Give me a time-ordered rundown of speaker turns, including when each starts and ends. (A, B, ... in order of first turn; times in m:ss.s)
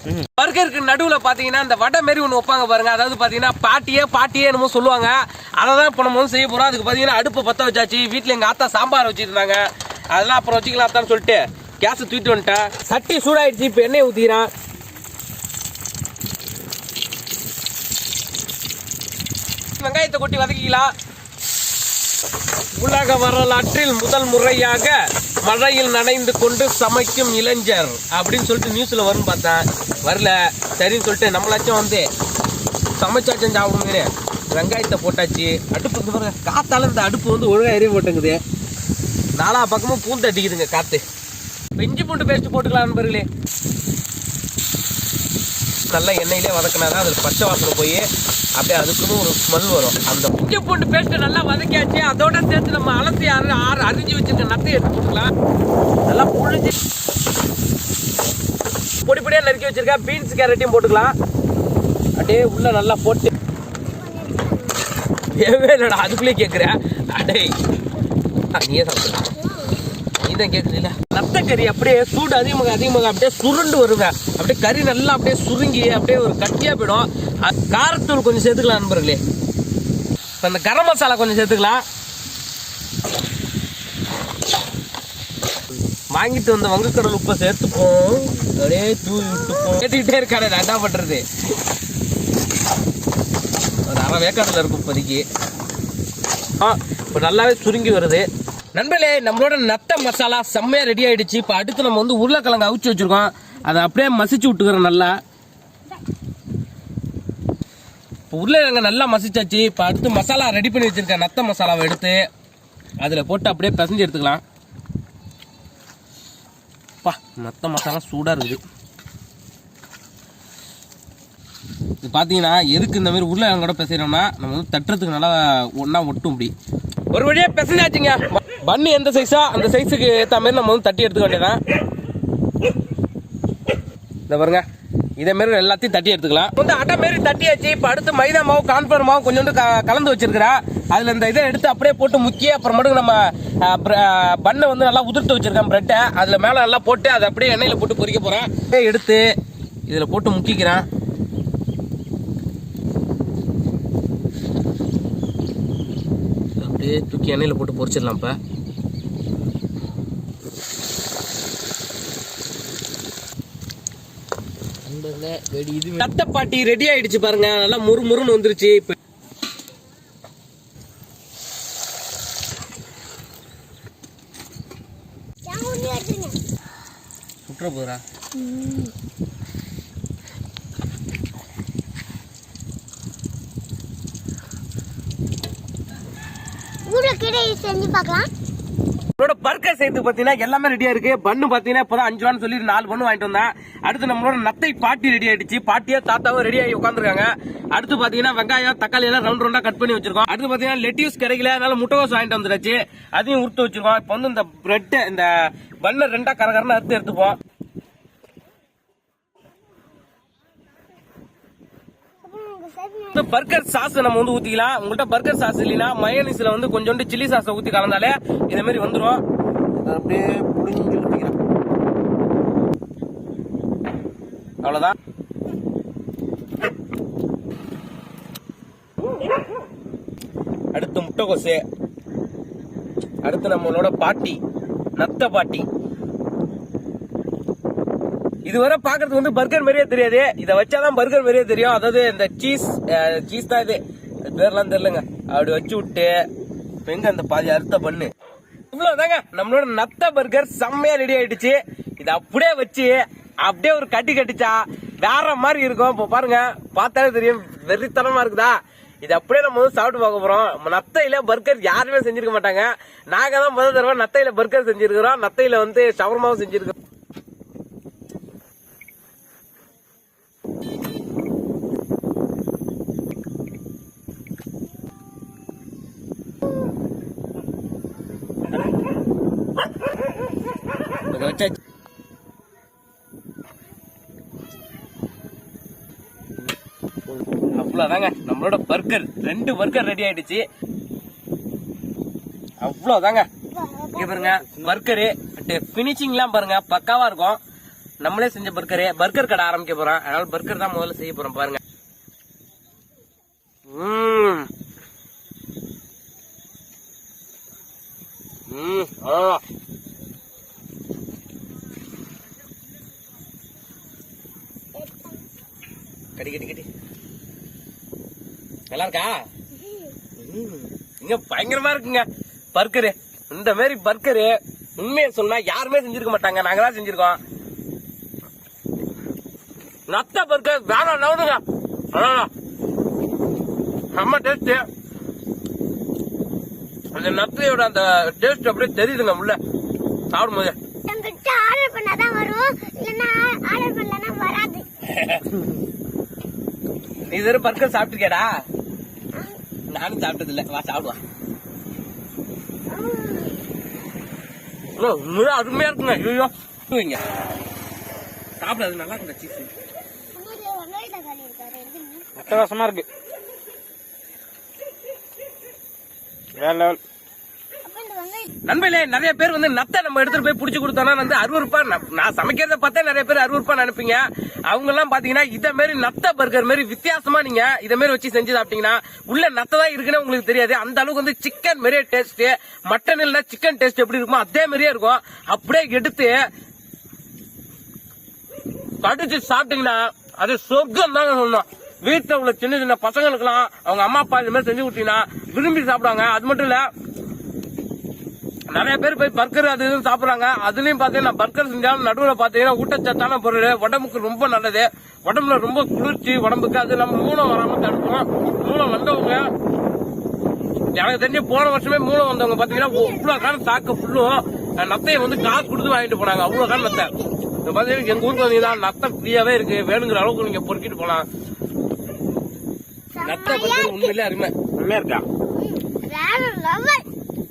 0:00.4-0:14.5 A
0:19.8-0:20.9 A
0:22.8-0:32.1 A
0:33.0-0:38.4 A
0:39.4-0:41.0 A
0:41.8-0:43.3 A
0:45.9-0:48.1 A
0:48.6-0:55.3 A
0:56.1-0:56.7 A
0:59.0-1:01.1 A
1:02.2-1:03.3 A
1:03.8-1:04.9 B
1:05.3-1:07.5 A
1:08.6-1:09.3 A
1:09.4-1:09.8 B
1:10.2-1:19.2 A
1:20.4-1:21.8 A
1:26.1-1:31.2 A
1:33.9-1:35.3 A
1:36.6-1:45.2 A
1:48.3-1:52.2 A
1:53.0-1:54.4 A
1:57.0-1:58.6 A
2:02.0-2:06.5 A
2:07.1-2:11.6 A
2:14.3-2:14.6 A
2:15.2-2:29.3 A
2:29.9-2:30.8 A
2:36.6-2:38.4 A
2:44.9-2:45.9 C
2:45.9-2:49.0 A
2:55.4-2:56.4 B
2:57.5-2:58.0 A
3:06.9-3:08.3 B
3:09.2-3:27.4 A
3:32.2-3:33.3 B
3:33.1-3:39.2 A
3:39.8-3:41.4 A
3:44.6-3:45.0 A
3:50.7-3:51.6 A
3:53.2-3:54.4 A
3:55.0-3:55.7 A
3:58.4-4:06.2 A
4:06.8-4:08.1 A
4:08.7-4:26.8 A
4:41.1-4:41.6 A
4:47.5-4:50.4 A
4:52.6-4:53.3 A
4:53.5-4:54.4 B
4:54.0-4:57.4 A
4:58.0-5:01.6 A
5:03.7-5:04.5 A
5:08.5-5:09.4 A
5:14.8-5:15.1 B
5:16.2-5:16.7 A
5:18.7-5:19.2 A
5:19.6-5:19.9 B
5:20.2-5:27.2 A
5:29.9-5:31.4 A
5:31.9-5:32.3 A
5:34.0-5:34.7 A
5:36.9-5:39.4 A
5:40.1-5:40.6 A
5:40.9-5:44.7 B
5:44.9-5:45.3 A
5:47.1-5:48.3 A
5:49.7-5:51.0 A
5:52.7-5:53.4 B
5:54.8-5:57.0 A
5:58.4-5:59.5 A
6:00.1-6:02.1 B
6:02.2-6:02.9 C
6:06.4-6:06.8 C
6:07.6-6:08.3 B
6:08.5-6:26.2 A
6:28.8-6:36.7 A
6:38.5-6:49.3 A
6:50.7-6:56.9 A
6:52.5-6:53.4 B
6:55.0-6:55.4 B
6:56.3-6:57.1 B
6:57.4-7:01.1 A
6:57.8-6:58.6 B
7:03.0-7:04.0 B
7:03.0-7:04.3 A
7:04.6-7:05.0 C
7:05.3-7:06.8 B